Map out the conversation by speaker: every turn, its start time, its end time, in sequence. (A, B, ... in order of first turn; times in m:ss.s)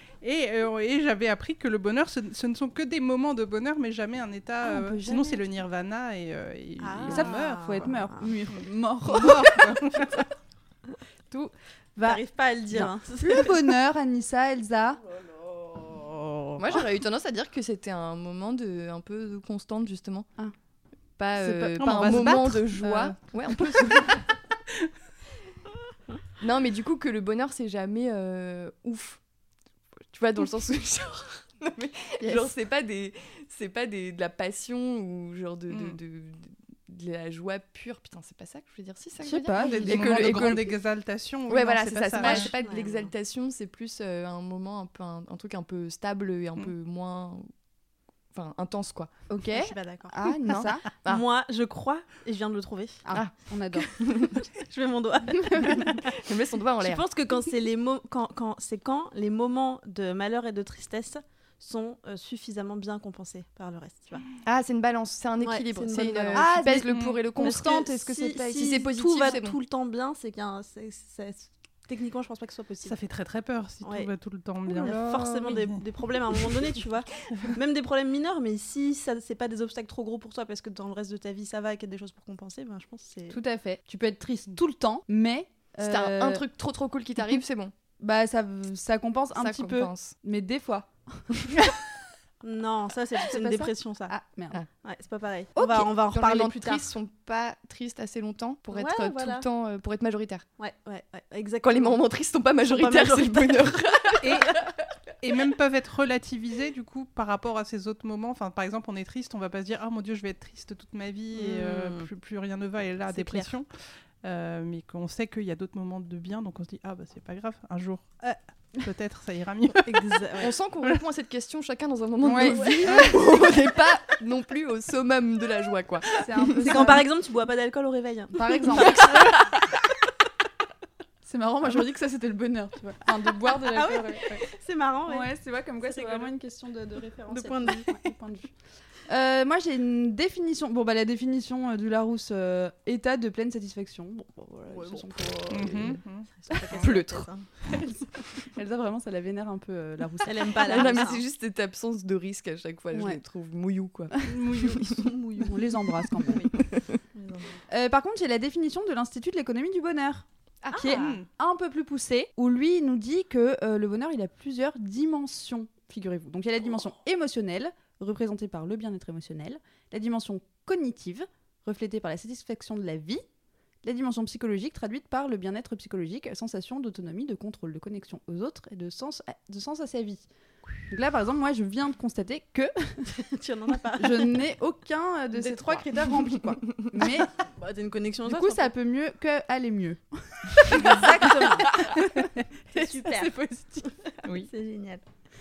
0:00.2-0:07.9 A
0:04.6-0:05.4 B
0:06.8-0:08.3 C
0:07.1-0:10.1 B
0:09.1-0:10.2 A
0:11.3-0:15.0 B
0:12.0-0:13.6 C
0:15.5-0:16.6 C
0:16.6-0:20.3 D
0:21.2-0:24.2 D
0:21.5-0:24.0 A
0:26.4-0:29.2 D
0:30.1-0:40.8 D
0:35.7-0:36.0 A
0:39.2-0:40.7 B
0:39.5-0:42.5 A
0:41.5-0:47.5 D
0:42.2-0:42.5 B
0:42.2-0:43.0 C
0:48.3-0:49.1 D
0:49.3-0:50.9 B
0:49.5-0:50.2 C
0:50.2-0:51.2 D
0:51.0-0:53.1 C
0:53.0-0:53.9 B
0:53.1-0:54.4 D
0:54.2-0:56.0 C
0:55.4-0:55.9 B
0:55.8-0:57.0 D
0:56.8-1:04.3 C
1:04.4-1:09.6 D
1:05.4-1:06.6 C
1:06.3-1:08.9 B
1:06.9-1:07.2 A
1:07.4-1:13.0 C
1:12.8-1:16.6 A
1:13.8-1:14.1 C
1:14.7-1:23.4 C
1:23.3-1:26.4 B
1:25.8-1:27.7 D
1:28.0-1:31.7 B
1:29.4-1:30.2 D
1:32.4-1:34.2 C
1:33.2-1:34.6 B
1:34.8-1:36.9 C
1:35.6-1:40.4 D
1:38.7-1:39.4 C
1:40.6-1:42.0 C
1:41.6-1:44.8 D
1:42.6-1:44.4 C
1:44.2-1:44.6 A
1:45.2-1:53.7 A
1:51.4-1:52.1 C
1:53.1-1:53.5 C
1:54.2-2:00.1 A
1:59.9-2:00.5 C
2:00.4-2:07.0 D
2:02.2-2:03.1 B
2:02.5-2:03.1 C
2:02.9-2:03.1 A
2:06.2-2:07.0 B
2:06.6-2:09.5 C
2:08.3-2:09.3 B
2:11.2-2:14.4 B
2:13.7-2:15.3 C
2:15.1-2:18.5 B
2:15.8-2:16.3 C
2:17.3-2:17.9 C
2:19.1-2:26.0 B
2:24.7-2:27.5 C
2:25.5-2:26.3 A
2:26.7-2:27.3 D
2:27.8-2:31.1 B
2:30.2-2:31.2 C
2:30.6-2:35.0 D
2:32.9-2:33.2 B
2:34.2-2:36.7 B
2:34.3-2:35.0 A
2:34.9-2:35.5 C
2:36.3-2:36.9 D
2:37.1-2:37.6 C
2:37.7-2:53.2 B
2:40.6-2:41.0 D
2:40.7-2:41.2 C
2:41.0-2:41.2 A
2:53.8-3:00.3 B
3:00.9-3:03.1 B
3:03.1-3:04.4 C
3:04.0-3:07.3 B
3:05.4-3:05.8 C
3:06.3-3:07.0 D
3:07.4-3:08.7 C
3:08.3-3:14.0 B
3:10.7-3:11.8 C
3:12.7-3:13.3 C
3:14.3-3:15.0 C